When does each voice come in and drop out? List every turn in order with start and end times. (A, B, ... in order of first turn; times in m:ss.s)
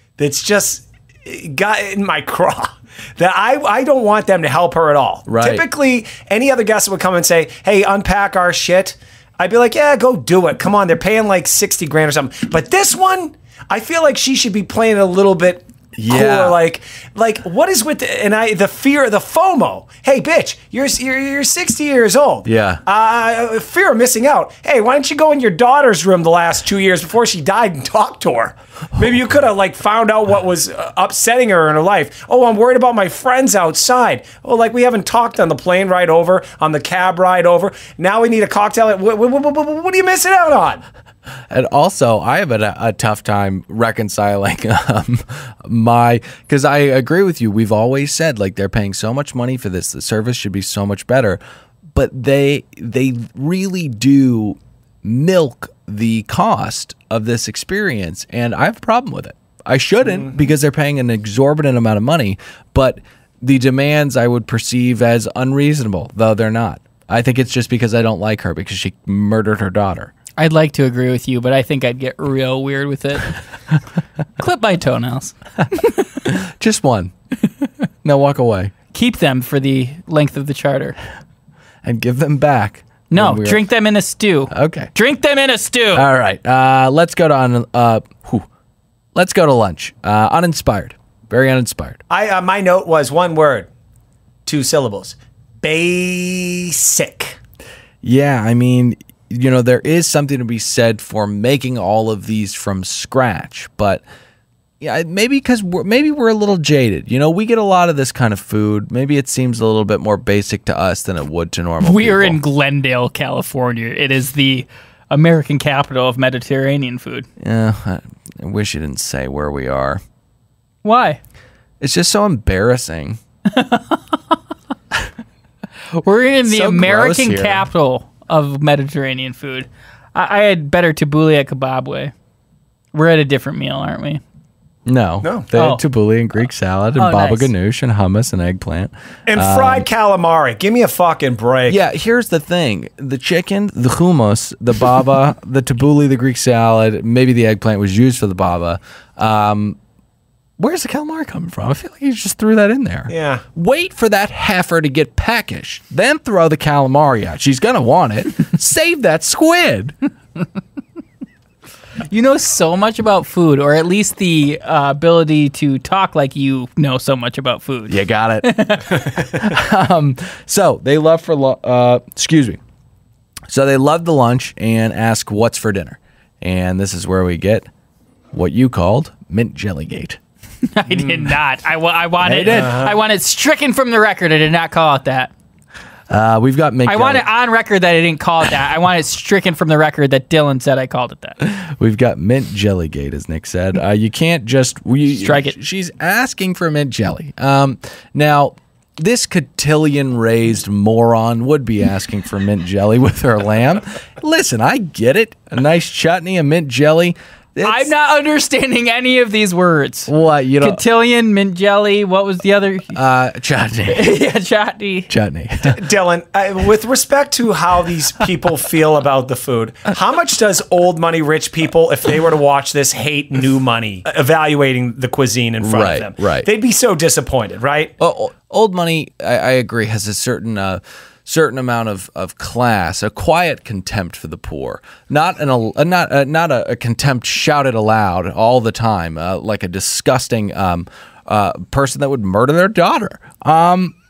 0:00.2-0:40.8 A
0:05.3-0:05.6 B
0:16.0-0:16.6 B
0:22.4-0:22.8 B
0:41.5-1:10.1 B
1:10.4-1:13.4 C
1:14.4-1:16.1 C
1:16.2-1:17.1 B
1:18.0-1:18.7 B
1:18.9-1:21.0 C
1:21.8-1:23.6 B
1:23.1-1:26.0 C
1:24.5-1:24.9 B
1:25.9-1:28.5 B
1:29.1-1:32.0 B
1:32.1-1:33.7 A
1:34.4-1:37.4 A
1:38.0-1:44.0 B
1:44.8-1:52.4 B
1:51.8-1:57.3 C
1:57.4-2:00.0 B
2:00.8-2:01.2 C
2:01.8-2:03.2 B
2:03.5-2:04.0 C
2:05.9-2:12.1 C
2:06.4-2:07.7 B
2:12.9-2:14.2 C
2:14.8-2:19.8 B
2:15.5-2:15.8 C
2:17.0-2:17.5 C
2:19.3-2:21.8 A
2:21.7-2:29.8 B
2:30.6-2:39.9 B
2:33.1-2:33.4 A
2:42.1-2:49.5 C
2:47.9-2:52.6 B
2:53.5-2:57.6 B
2:58.3-3:00.2 B
3:00.7-3:05.3 C
3:02.2-3:02.8 B
3:02.5-3:02.9 A
3:06.1-3:07.2 B
3:06.8-3:11.4 C
3:11.4-3:27.9 B
3:15.1-3:15.6 C
3:27.6-3:33.0 C
3:30.1-3:30.8 B
3:32.9-3:34.2 B
3:33.9-3:35.1 C
3:35.1-3:35.8 B
3:35.7-3:47.9 A
3:45.6-3:46.5 B
3:48.0-4:03.9 B